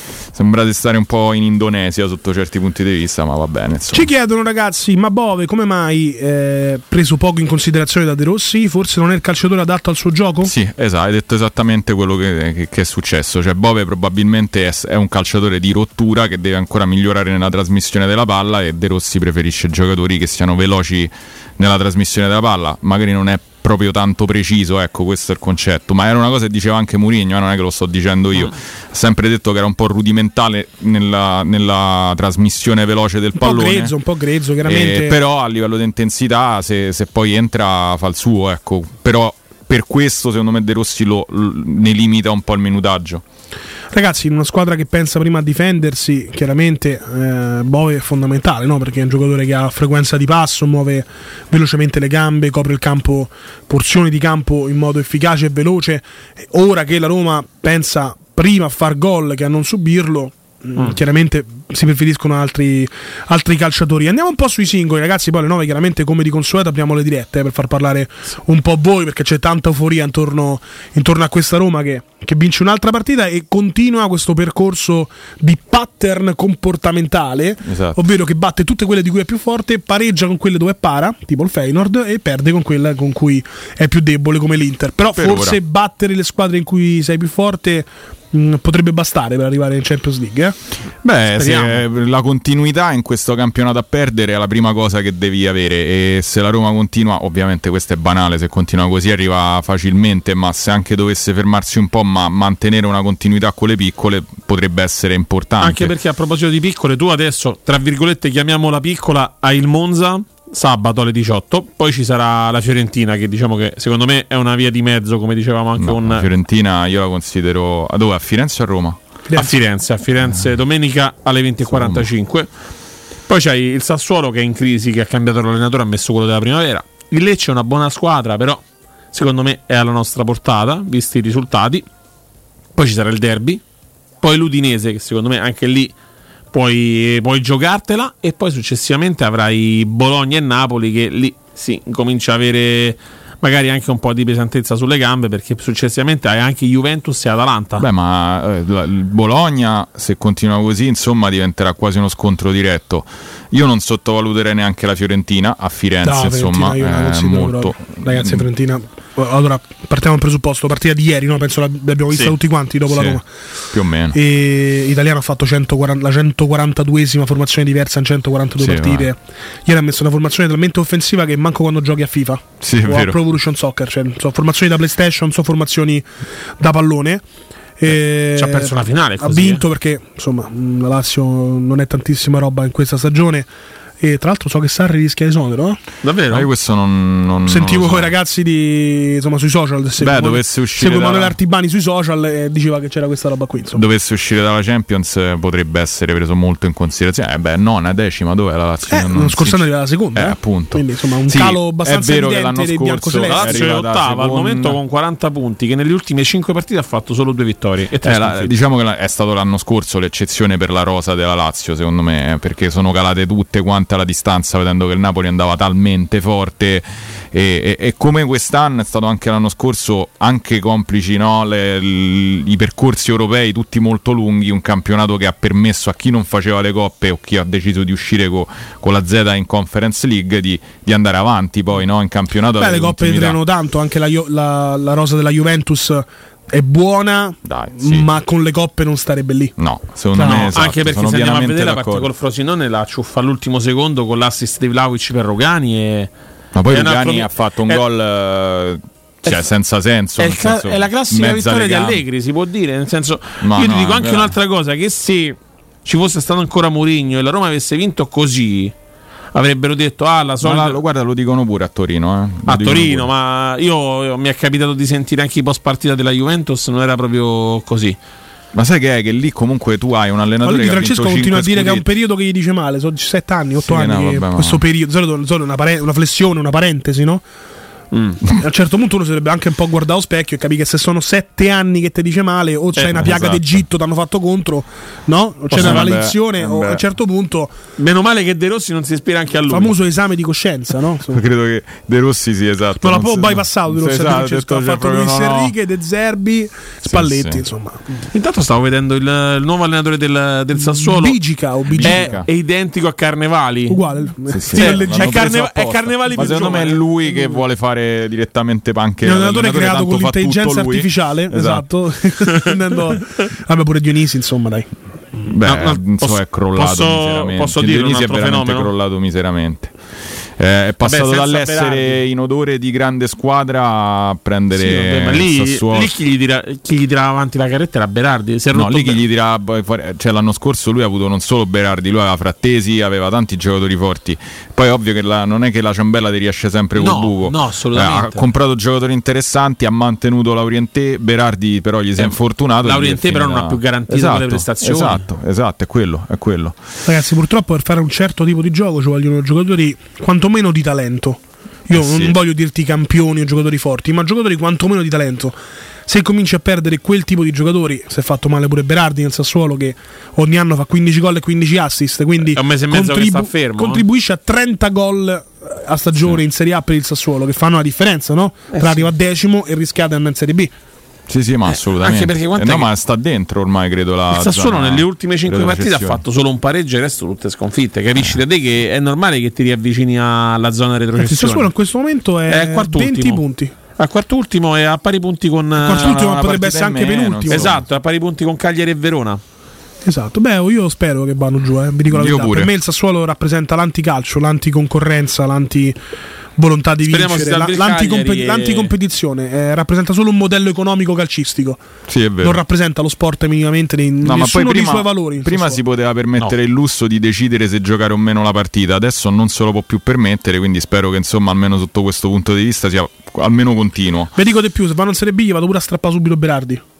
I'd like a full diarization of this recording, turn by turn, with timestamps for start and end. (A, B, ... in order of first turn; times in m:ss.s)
0:00.3-0:04.1 A
0:03.9-0:10.5 B
0:10.4-0:33.9 A
0:33.3-0:35.2 B
0:34.6-0:43.2 A
0:43.9-1:30.6 B
1:17.6-1:18.0 A
1:25.1-1:25.6 A
1:31.0-1:45.9 A
1:31.3-1:31.8 C
1:45.6-1:56.3 C
1:55.8-1:59.0 A
1:59.3-2:02.5 C
2:01.7-2:02.1 A
2:03.3-2:08.6 C
2:09.1-2:11.8 C
2:12.7-2:13.6 C
2:14.2-2:15.9 C
2:16.5-2:27.8 C
2:27.8-2:38.4 A
2:36.0-2:43.2 B
2:42.9-2:44.2 A
2:44.1-2:56.1 B
2:48.6-2:49.1 A
2:52.6-2:53.2 A
2:56.6-2:57.2 B
2:57.8-3:03.5 B
2:58.3-2:59.6 C
3:04.0-3:05.8 B
3:06.0-3:06.5 C
3:06.3-3:08.1 A
3:07.4-3:13.8 B
3:10.0-3:11.4 A
3:13.7-3:24.8 A
3:18.9-3:23.7 B
3:23.3-3:28.5 C
3:28.0-3:53.4 A
3:52.6-3:59.5 B
3:57.4-3:58.1 A
3:59.6-4:02.1 A
4:00.1-4:00.5 B
4:00.2-4:06.1 C
4:06.5-4:12.0 A
4:06.7-4:07.8 C
4:10.2-4:18.7 C
4:13.4-4:14.3 A
4:19.3-4:20.8 C
4:20.4-4:23.1 A
4:22.5-4:28.0 C
4:28.5-4:31.8 A
4:30.4-4:37.2 B
4:33.6-4:34.6 A
4:37.9-4:38.2 C
4:38.3-4:47.5 B
4:42.8-4:43.0 C
4:42.9-4:43.6 A
4:45.5-4:45.9 C
4:45.5-4:46.8 A
4:47.8-4:49.8 C
4:49.5-4:51.2 B
4:51.1-4:55.5 A
4:52.8-4:58.0 B
4:56.8-4:57.4 A
4:58.1-5:01.2 C
5:00.5-5:02.1 B
5:01.7-5:02.3 A
5:01.8-5:04.0 C
5:03.7-5:05.4 B
5:04.3-5:11.7 A
5:04.5-5:06.9 C
5:06.1-5:06.5 B
5:09.0-5:14.7 B
5:15.3-5:19.7 A
5:15.4-5:18.7 C
5:20.4-5:25.9 A
5:20.8-5:22.0 C
5:24.5-5:29.0 C
5:28.5-5:46.6 A
5:36.8-5:38.2 C
5:42.0-5:45.0 C
5:46.8-5:55.4 B
5:51.7-5:52.2 A
5:55.9-6:10.5 B
6:02.3-6:03.8 C
6:08.5-6:08.9 C
6:11.1-6:16.0 A
6:11.5-6:12.7 C
6:14.1-6:21.5 C
6:21.0-6:23.5 B
6:22.3-6:23.2 C
6:23.8-6:26.0 C
6:25.6-6:27.6 B
6:25.6-6:27.6 A
6:27.3-6:29.2 C
6:29.8-6:35.8 B
6:31.9-6:32.5 A
6:36.4-6:41.6 B
6:36.9-6:38.7 C
6:41.9-6:42.4 A
6:42.2-6:45.6 B
6:44.0-6:54.1 A
6:54.1-6:56.6 B